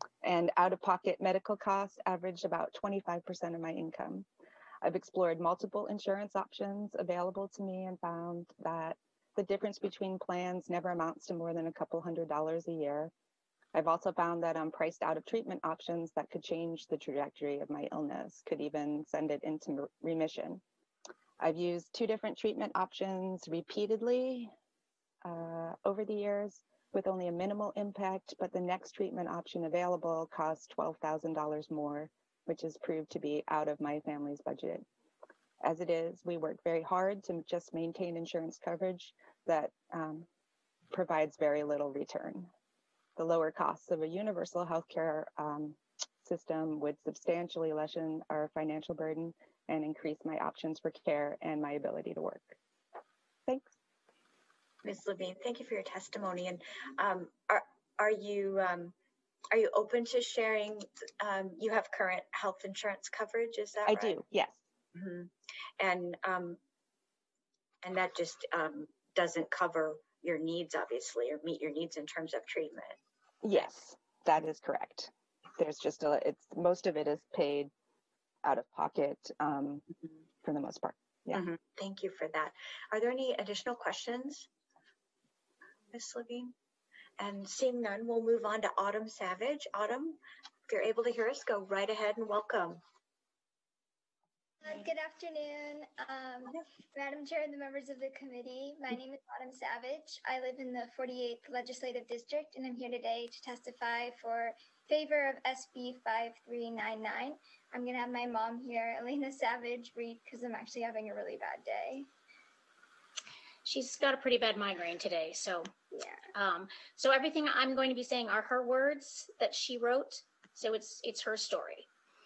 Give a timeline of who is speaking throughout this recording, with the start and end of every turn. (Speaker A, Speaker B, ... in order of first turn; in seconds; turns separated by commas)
Speaker A: 0.2-4.3, Speaker A: 4.8-13.1, Speaker A: 13.7-20.6, Speaker A: 21.4-24.5, Speaker A: 25.2-34.9, Speaker A: 35.6-40.3, Speaker A: 40.9-42.5, Speaker A: 43.2-52.6, Speaker B: 54.8-58.9, Speaker B: 59.5-64.2, Speaker A: 63.9-64.6, Speaker B: 65.0-66.6, Speaker B: 67.8-73.0, Speaker A: 73.4-77.7, Speaker A: 78.5-79.8, Speaker A: 80.4-81.5, Speaker B: 81.3-84.5, Speaker B: 85.9-86.5, Speaker B: 87.2-92.8, Speaker C: 94.6-112.1, Speaker D: 113.6-115.7, Speaker C: 115.9-116.2, Speaker D: 116.3-121.9